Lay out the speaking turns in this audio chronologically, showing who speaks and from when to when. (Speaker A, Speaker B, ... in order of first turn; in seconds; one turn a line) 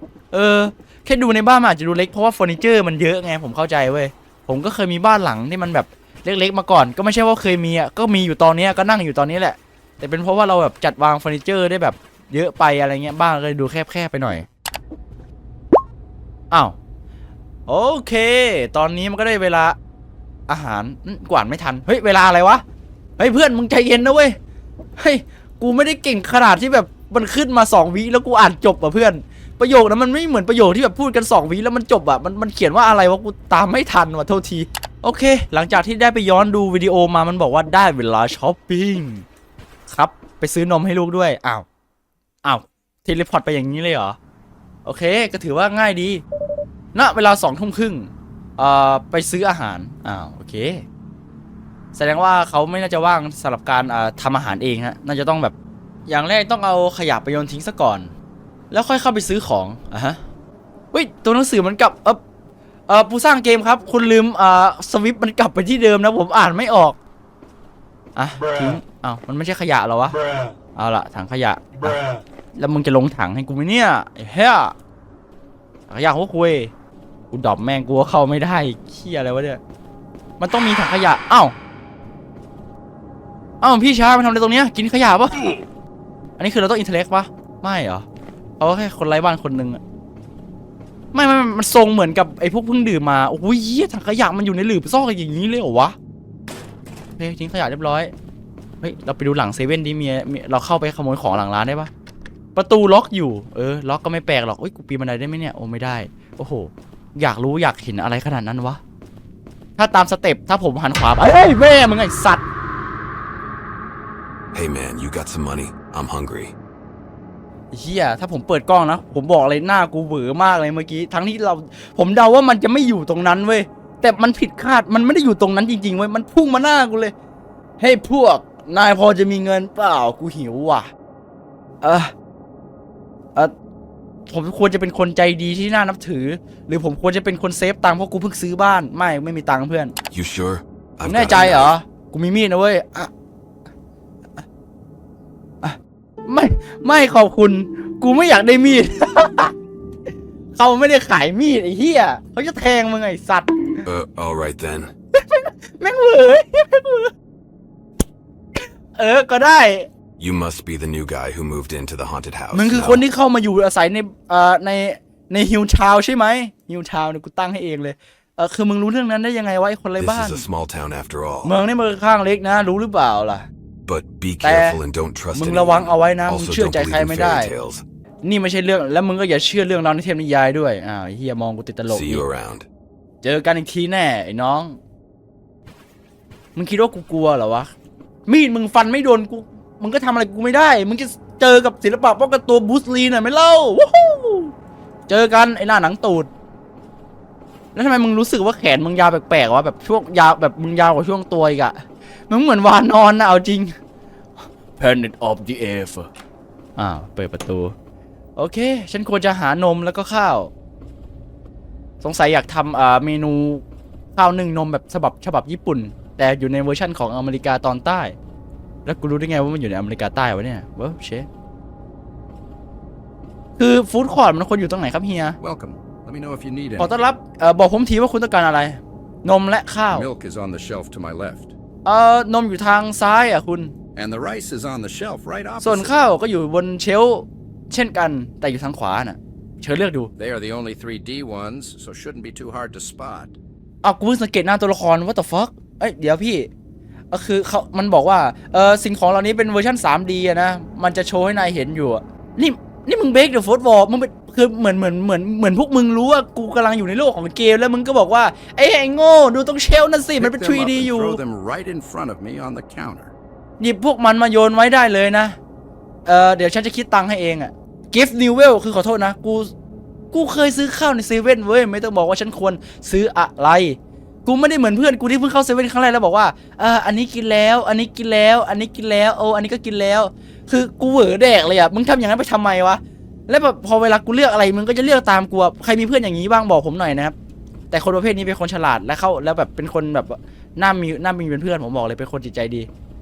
Speaker A: 0.3-14.5
Speaker A: 16.5-16.8
Speaker A: 17.7-19.8
Speaker A: 20.5-22.6
Speaker A: 23.2-24.4
Speaker A: 25.0-39.2
Speaker A: 39.9-41.7
Speaker A: 42.4-44.2
Speaker A: 44.9-46.2
Speaker A: 46.9-50.8
Speaker A: 52.0-55.5
Speaker A: 56.1-58.1
Speaker A: 58.7-60.2
Speaker A: 60.9-62.2
Speaker A: 62.9-67.0
Speaker A: 68.2-70.2
Speaker A: 70.8-72.0
Speaker A: 72.6-74.7
Speaker A: 75.9-76.7
Speaker A: 77.3-79.6
Speaker A: 80.4-81.5
Speaker A: 83.6-85.5
Speaker A: 86.4-88.0
Speaker A: 88.6-89.8
Speaker A: 91.1-96.0
Speaker A: 97.2-98.1
Speaker A: 98.8-101.9
Speaker A: 102.5-108.8
Speaker A: 109.8-112.4
Speaker B: 114.5-116.5
Speaker A: 117.7-127.1
Speaker A: 127.8-130.9
Speaker A: 131.8-132.1
Speaker A: 134.3-139.9
Speaker B: 140.1-141.7
Speaker A: 141.1-143.1
Speaker A: 145.6-149.5
Speaker A: 150.6-153.8
Speaker B: 153.8-154.9
Speaker A: 155.1-157.1
Speaker A: 159.0-159.9
Speaker B: 160.2-163.1
Speaker A: 162.5-170.5
Speaker B: 170.0-171.5
Speaker A: 171.4-173.5
Speaker B: 173.9-177.8
Speaker A: 174.4-174.8
Speaker A: 175.3-177.5
Speaker A: 178.2-182.2
Speaker B: 181.9-182.7
Speaker A: 183.2-184.8
Speaker A: 186.6-187.7
Speaker A: 188.3-194.5
Speaker A: 195.1-196.3
Speaker A: 197.8-203.7
Speaker A: 204.8-206.1
Speaker A: 206.8-207.7
Speaker A: 208.4-210.5
Speaker A: 212.0-213.6
Speaker A: 214.2-218.2
Speaker A: 218.8-221.3
Speaker A: 223.6-225.4
Speaker C: 225.4-227.0
Speaker A: 226.8-230.1
Speaker C: 229.9-231.5
Speaker A: 231.8-233.7
Speaker C: 234.0-236.0
Speaker A: 235.6-240.1
Speaker C: 240.2-243.3
Speaker A: 243.8-246.5
Speaker A: 247.1-261.2
Speaker C: 260.2-263.1
Speaker A: 263.6-265.4
Speaker A: 266.1-269.5
Speaker A: 270.1-287.1
Speaker A: 287.7-292.7